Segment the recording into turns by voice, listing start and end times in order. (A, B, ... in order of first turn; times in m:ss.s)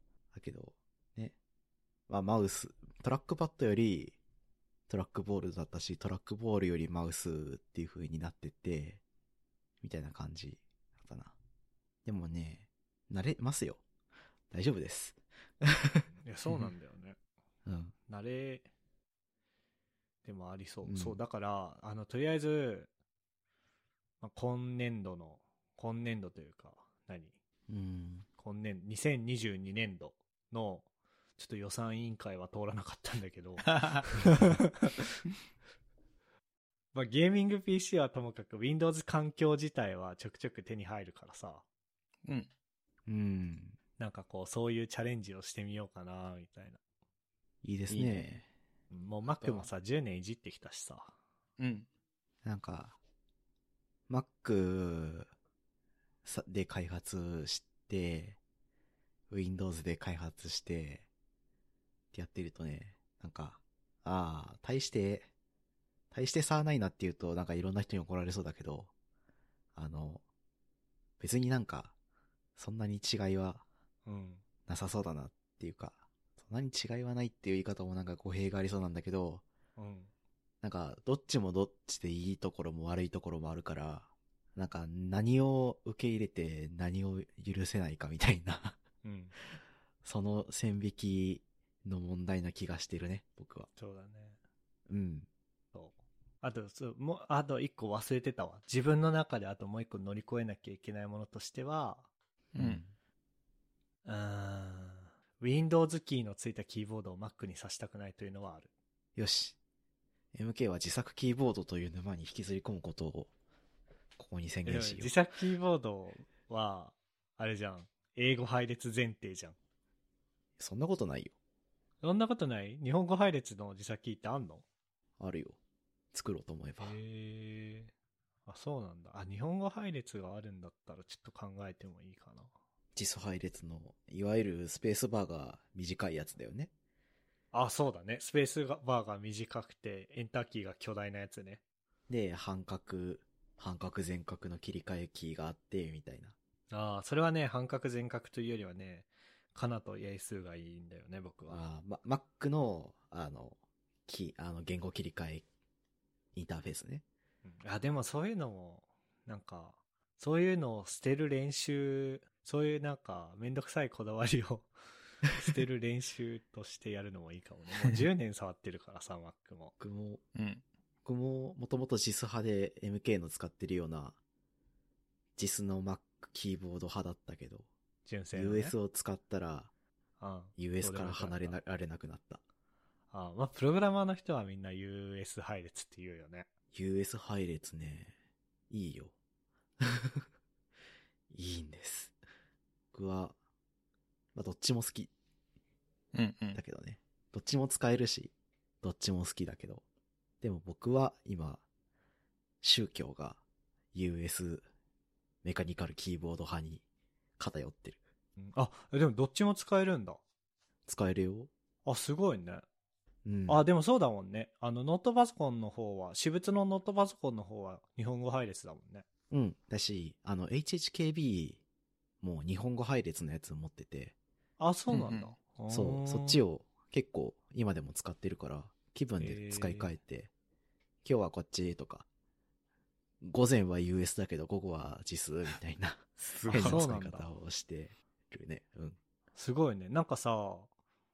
0:00.3-0:01.4 A
0:02.1-0:04.2 A
0:04.9-0:09.0 A
0:09.8-0:11.4 A
0:12.0-0:13.8 A
0:14.5-0:16.1 A
0:16.2-0:17.2 B
0:17.7-0:17.9 A
0:18.1-0:18.7 B
0:20.2-0:22.9 B
0:20.8-0:21.2 A
0:24.2-0:27.4 B
0:27.7-0:28.3 A
0:28.4-0:30.9 B
0:31.4-0:35.0 B
0:33.7-0:34.1 C
0:36.9-0:41.6 B
0:43.1-0:43.8 A
0:44.0-0:46.8 B
0:47.6-0:48.4 A
0:47.9-0:48.2 C
0:48.9-0:51.1 B
0:49.4-0:49.7 C
0:51.6-0:51.9 C
0:52.4-0:53.0 A
0:54.1-0:55.3 A
0:56.2-0:58.4 A
0:59.3-1:01.1 A
1:02.1-1:05.3 A
1:06.1-1:08.9 A
1:09.8-1:10.2 A
1:11.2-1:11.9 A
1:12.6-1:13.6 A
1:14.1-1:14.4 B
1:14.7-1:19.4 A
1:19.8-1:20.1 B
1:20.6-1:28.8 A
1:29.0-1:29.4 B
1:30.0-1:33.7 A
1:33.8-1:34.4 B
1:34.9-1:35.3 A
1:35.7-1:42.1 B
1:42.5-1:42.8 C
1:42.6-1:42.9 A
1:44.0-1:48.7 B
1:49.2-1:49.6 A
1:50.3-1:53.3 A
1:54.2-1:55.2 A
1:54.6-1:59.6 B
2:00.6-2:01.4 A
2:02.0-2:04.6 B
2:05.2-2:05.6 A
2:06.1-2:07.0 A
2:06.8-2:07.9 B
2:08.5-2:12.5 B
2:13.0-2:16.7 A
2:17.5-2:21.6 B
2:22.1-2:26.4 A
2:26.7-2:31.6 B
2:31.5-2:35.4 A
2:36.4-2:37.0 A
2:37.4-2:44.7 B
2:45.3-2:49.7 B
2:49.8-2:50.2 A
2:50.4-2:50.6 C
2:51.0-2:54.2 A
2:55.4-2:57.7 A
2:58.1-2:58.8 B
2:58.3-2:59.7 A
3:00.2-3:01.6 B
3:00.6-3:02.4 A
3:03.1-3:06.5 B
3:06.7-3:08.2 A
3:08.7-3:09.1 A
3:09.8-3:10.3 A
3:11.3-3:12.2 A
3:12.9-3:13.4 A
3:14.4-3:15.1 A
3:16.1-3:16.6 C
3:16.5-3:19.8 A
3:20.4-3:21.6 A
3:22.6-3:23.4 A
3:23.9-3:24.7 A
3:25.4-3:26.8 A
3:27.4-3:28.0 A
3:28.4-3:30.2 B
3:30.9-3:31.5 A
3:31.8-3:32.7 B
3:33.2-3:33.6 A
3:33.5-3:39.1 B
3:39.3-3:41.6 A
3:42.2-3:44.2 A
3:44.6-3:46.4 B
3:44.9-3:45.4 C
3:45.7-3:50.3 A
3:49.2-3:49.9 B
3:51.0-3:52.1 A
3:53.2-3:59.0 A
3:56.2-3:56.9 C
3:56.5-3:57.3 B
3:59.4-4:00.7 B